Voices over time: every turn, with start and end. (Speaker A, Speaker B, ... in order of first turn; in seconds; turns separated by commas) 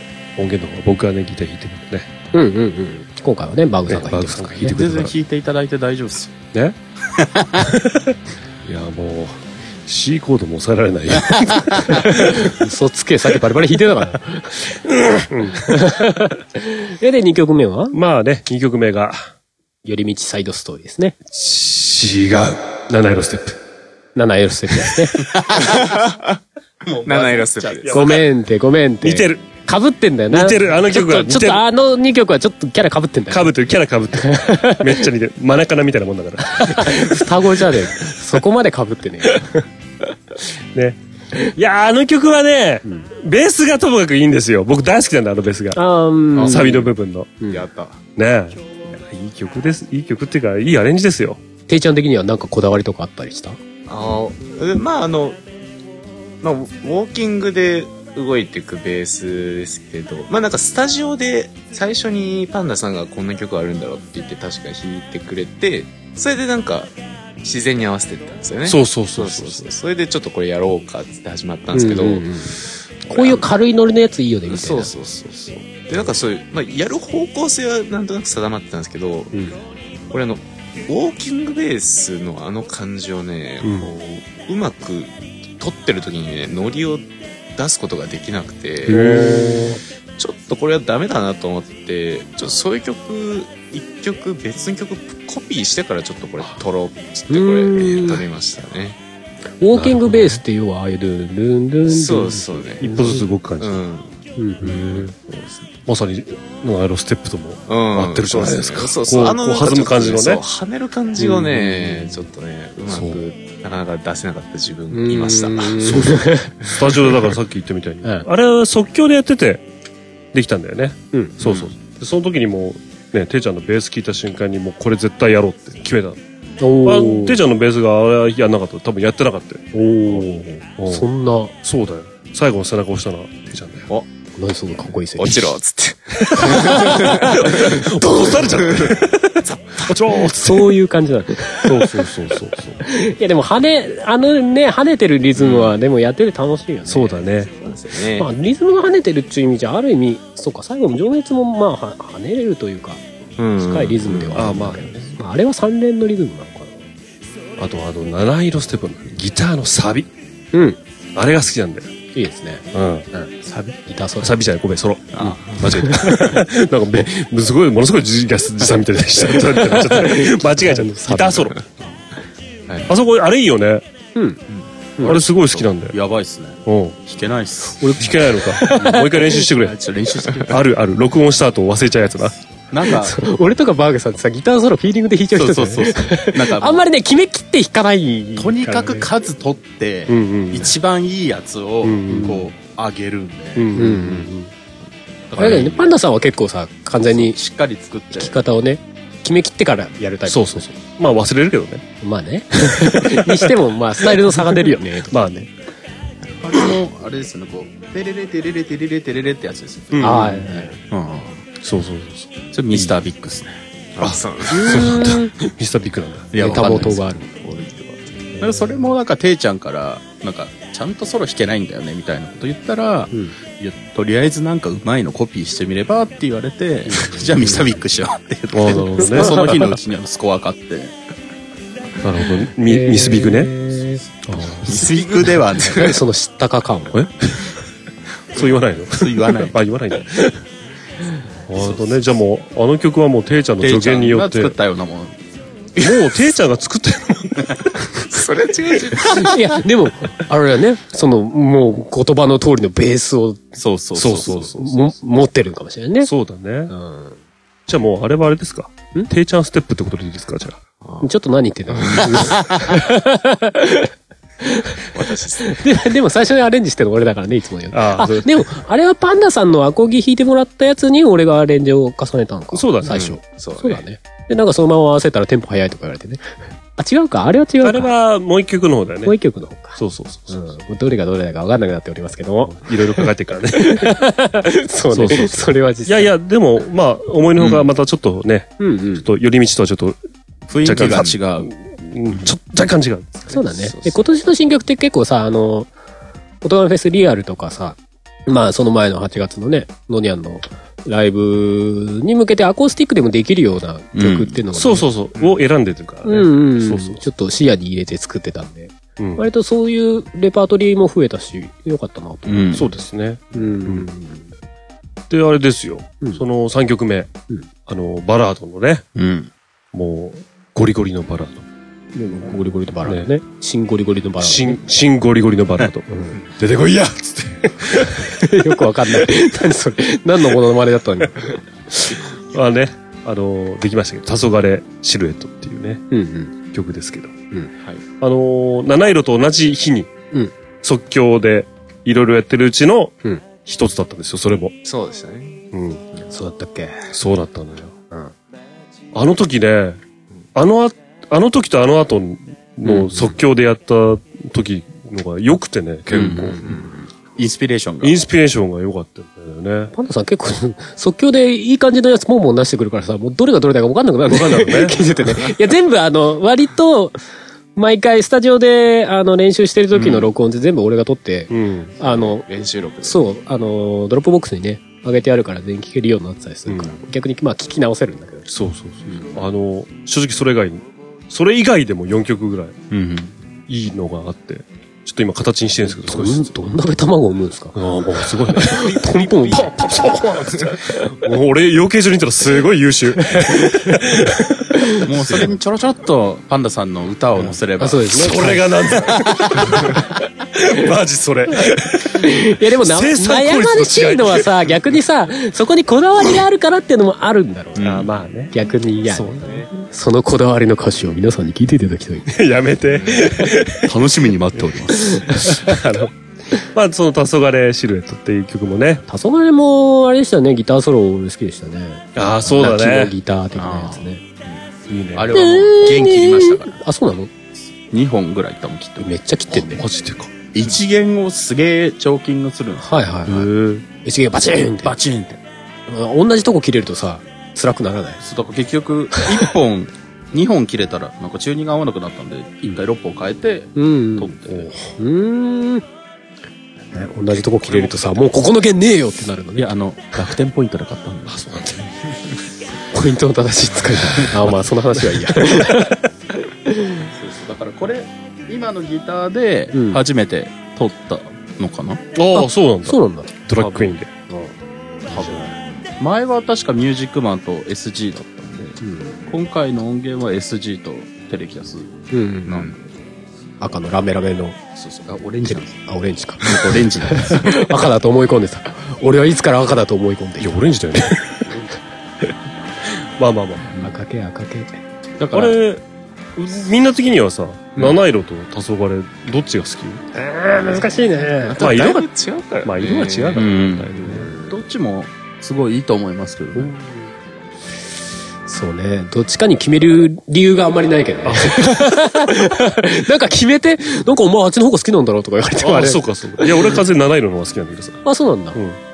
Speaker A: 0.4-2.1, Speaker B: 2.3-4.8, Speaker A: 3.9-5.1, Speaker C: 4.6-6.3, Speaker C: 7.2-7.6, Speaker A: 7.6-12.6, Speaker B: 11.9-14.8, Speaker A: 14.8-16.1, Speaker B: 15.4-18.0, Speaker A: 17.9-19.2, Speaker B: 19.8-21.1, Speaker A: 21.3-23.6, Speaker B: 24.1-25.2, Speaker C: 25.3-25.9, Speaker D: 25.6-26.3, Speaker C: 26.8-28.0, Speaker D: 27.0-28.0, Speaker A: 27.8-28.2, Speaker B: 27.9-33.5, Speaker A: 29.0-29.4, Speaker A: 30.3-31.6, Speaker A: 33.3-38.4, Speaker B: 34.2-35.1, Speaker B: 36.6-39.5, Speaker A: 39.2-39.6, Speaker A: 40.7-45.8, Speaker B: 45.7-46.8, Speaker A: 46.3-47.3, Speaker D: 47.5-48.0, Speaker A: 48.1-51.4, Speaker B: 51.7-53.6, Speaker D: 53.9-55.4, Speaker D: 56.4-73.5, Speaker A: 68.6-69.7, Speaker B: 71.7-72.5, Speaker B: 73.1-74.9, Speaker D: 74.5-79.4, Speaker B: 79.3-79.6, Speaker D: 80.1-89.2, Speaker A: 83.6-83.9, Speaker B: 88.8-89.8, Speaker A: 88.8-89.8, Speaker D: 90.2-99.0, Speaker B: 97.3-98.2, Speaker B: 99.6-103.3, Speaker A: 99.7-100.4, Speaker D: 101.9-104.1, Speaker A: 102.8-103.8, Speaker B: 104.4-104.8, Speaker A: 104.6-105.1, Speaker D: 104.7-105.7, Speaker A: 105.8-110.4, Speaker D: 107.7-116.1, Speaker B: 111.2-112.2, Speaker A: 112.8-113.2, Speaker B: 114.9-116.5, Speaker A: 115.8-119.6, Speaker D: 116.6-117.0, Speaker A: 120.3-126.2, Speaker D: 121.4-121.7, Speaker B: 126.6-127.4, Speaker A: 126.8-131.1, Speaker B: 129.7-131.5, Speaker A: 131.6-133.9, Speaker B: 134.4-135.5, Speaker D: 135.2-140.0, Speaker A: 136.2-140.8, Speaker B: 136.4-138.3, Speaker B: 140.3-142.1, Speaker A: 141.6-142.8, Speaker B: 142.8-147.3, Speaker D: 145.4-145.7, Speaker A: 146.8-147.5, Speaker D: 147.6-148.3, Speaker B: 148.2-153.0, Speaker D: 153.4-154.5, Speaker B: 153.6-156.8, Speaker A: 154.3-155.2, Speaker A: 157.6-160.1, Speaker B: 160.5-160.8, Speaker A: 161.1-161.9, Speaker B: 162.1-163.3, Speaker A: 162.7-163.1, Speaker C: 163.4-163.8, Speaker B: 163.8-164.3, Speaker A: 164.2-171.6, Speaker C: 165.1-165.4, Speaker B: 165.8-166.4, Speaker B: 169.4-171.5, Speaker A: 172.9-173.8, Speaker B: 174.1-174.4, Speaker A: 175.0-176.0, Speaker C: 175.0-178.1, Speaker A: 176.6-177.0, Speaker A: 177.8-179.8, Speaker B: 177.8-179.4, Speaker C: 179.4-180.6, Speaker A: 180.4-182.3, Speaker C: 182.7-183.2, Speaker B: 182.9-189.1, Speaker C: 185.3-186.8, Speaker C: 188.4-193.9, Speaker A: 190.1-190.7, Speaker A: 191.8-192.4, Speaker B: 192.1-192.5, Speaker A: 193.6-194.5, Speaker B: 193.8-194.3, Speaker C: 195.3-195.9, Speaker A: 195.4-195.8, Speaker B: 195.4-197.4, Speaker C: 197.0-198.4, Speaker B: 198.1-200.7, Speaker A: 200.2-201.8, Speaker B: 202.0-205.1, Speaker A: 202.8-203.5, Speaker A: 204.0-205.5, Speaker C: 206.4-210.4, Speaker A: 209.9-210.7, Speaker B: 210.0-210.8, Speaker C: 210.9-211.4, Speaker A: 211.6-213.0, Speaker C: 212.5-213.5, Speaker D: 213.9-214.7, Speaker A: 214.0-216.3, Speaker B: 214.5-215.3, Speaker C: 216.3-217.0, Speaker B: 216.3-217.4, Speaker D: 217.4-218.1, Speaker B: 218.3-218.8, Speaker C: 218.4-230.9, Speaker A: 226.9-227.2, Speaker B: 227.1-227.6, Speaker A: 228.5-229.7, Speaker B: 229.0-229.7, Speaker A: 232.0-233.5, Speaker B: 232.6-234.0, Speaker A: 234.2-234.9, Speaker C: 234.6-236.0, Speaker B: 235.6-237.0, Speaker A: 236.9-237.6, Speaker A: 238.3-240.4, Speaker C: 238.9-239.6, Speaker A: 241.4-244.6, Speaker C: 241.6-242.0, Speaker C: 243.6-245.2, Speaker A: 245.8-247.9, Speaker D: 248.1-249.3, Speaker B: 249.1-253.5, Speaker C: 253.6-254.5, Speaker A: 253.9-254.9, Speaker B: 254.5-256.1, Speaker A: 256.0-256.7, Speaker B: 256.7-257.1, Speaker A: 257.7-260.6, Speaker D: 260.8-261.1, Speaker B: 261.0-263.9, Speaker D: 261.7-262.2, Speaker B: 264.4-264.8, Speaker D: 264.9-265.7, Speaker B: 265.4-277.9, Speaker A: 267.7-268.4, Speaker A: 272.5-273.1, Speaker D: 272.9-273.8, Speaker A: 277.6-279.2, Speaker B: 279.0-286.1, Speaker A: 279.8-280.4, Speaker A: 282.4-284.0, Speaker A: 284.9-290.0, Speaker C: 287.4-287.7, Speaker B: 288.6-289.1, Speaker C: 290.5-291.5, Speaker A: 290.6-293.4, Speaker B: 293.3-295.7, Speaker D: 293.5-293.9, Speaker B: 296.4-304.9, Speaker C: 303.9-304.4, Speaker A: 304.5-307.0, Speaker B: 306.1-312.6, Speaker A: 309.0-309.2, Speaker C: 312.2-312.6, Speaker A: 312.5-313.9, Speaker B: 313.3-314.3, Speaker A: 315.1-317.1, Speaker A: 317.7-318.8, Speaker C: 318.9-319.3, Speaker A: 319.7-321.4, Speaker B: 321.9-324.6, Speaker A: 322.8-323.1, Speaker A: 324.2-329.1, Speaker B: 325.9-326.2, Speaker B: 327.9-331.8, Speaker A: 332.3-335.8, Speaker B: 335.9-336.3, Speaker A: 336.5-337.1, Speaker A: 338.0-339.9, Speaker A: 340.6-344.5, Speaker D: 344.6-346.1, Speaker A: 345.5-345.8, Speaker B: 346.1-346.7, Speaker A: 346.9-347.7, Speaker A: 348.9-349.8, Speaker A: 350.3-356.5, Speaker C: 355.9-356.6, Speaker B: 356.4-356.8, Speaker C: 357.1-358.0, Speaker A: 357.8-359.7, Speaker B: 359.7-367.0, Speaker A: 364.1-364.8, Speaker B: 367.5-372.2, Speaker C: 369.7-370.0, Speaker A: 371.3-371.7, Speaker D: 371.8-373.1, Speaker B: 372.8-378.3, Speaker A: 376.4-376.8, Speaker A: 378.3-382.6, Speaker B: 378.9-379.1, Speaker C: 382.7-383.1, Speaker A: 383.5-386.4, Speaker B: 385.7-390.0, Speaker A: 387.5-395.3, Speaker B: 393.0-393.9, Speaker B: 394.6-395.2, Speaker C: 394.8-398.3, Speaker B: 397.6-398.5, Speaker A: 397.9-404.5, Speaker C: 398.9-399.6, Speaker B: 399.4-399.6, Speaker B: 401.9-407.7, Speaker C: 407.6-407.9, Speaker A: 407.6-408.3, Speaker B: 408.3-412.1, Speaker A: 408.9-409.5, Speaker A: 412.1-413.7, Speaker D: 412.7-413.1, Speaker C: 413.6-414.9, Speaker A: 414.4-415.9, Speaker B: 414.9-415.9, Speaker A: 416.5-418.8, Speaker B: 418.9-424.0, Speaker A: 421.9-422.9, Speaker C: 423.3-424.4, Speaker B: 424.7-427.1, Speaker C: 424.9-426.6, Speaker C: 427.7-428.9, Speaker B: 428.8-429.6, Speaker A: 429.3-430.1, Speaker C: 430.3-433.6, Speaker B: 432.6-434.7, Speaker C: 434.6-435.2, Speaker B: 435.7-438.0, Speaker C: 438.0-444.5, Speaker B: 438.9-439.2, Speaker B: 443.6-444.2, Speaker A: 444.3-444.7, Speaker B: 444.8-445.6, Speaker B: 446.7-449.5, Speaker A: 447.4-448.0, Speaker C: 449.4-451.2, Speaker A: 451.1-451.7, Speaker B: 452.7-455.8, Speaker A: 454.9-455.9, Speaker B: 456.4-456.9, Speaker C: 456.9-461.8, Speaker B: 459.5-459.8, Speaker A: 461.9-464.1, Speaker B: 462.1-463.2, Speaker C: 463.4-463.7, Speaker C: 464.9-472.6, Speaker A: 464.9-465.2, Speaker B: 468.6-469.0, Speaker B: 471.9-472.4, Speaker B: 473.4-474.4, Speaker C: 474.6-475.6, Speaker B: 475.2-480.4, Speaker C: 476.2-477.4, Speaker A: 480.2-481.3, Speaker A: 483.0-483.6, Speaker B: 483.5-484.6, Speaker C: 485.0-485.4, Speaker A: 485.1-485.6, Speaker A: 486.1-489.8, Speaker C: 487.5-487.8, Speaker B: 489.9-491.4, Speaker D: 491.2-493.2, Speaker A: 491.4-491.9, Speaker A: 492.4-494.1, Speaker C: 493.1-493.7, Speaker B: 493.8-494.4, Speaker C: 494.2-496.5, Speaker B: 496.4-496.9, Speaker B: 498.3-506.6, Speaker A: 501.0-501.7, Speaker A: 505.4-507.8, Speaker B: 507.8-508.4, Speaker A: 508.3-508.6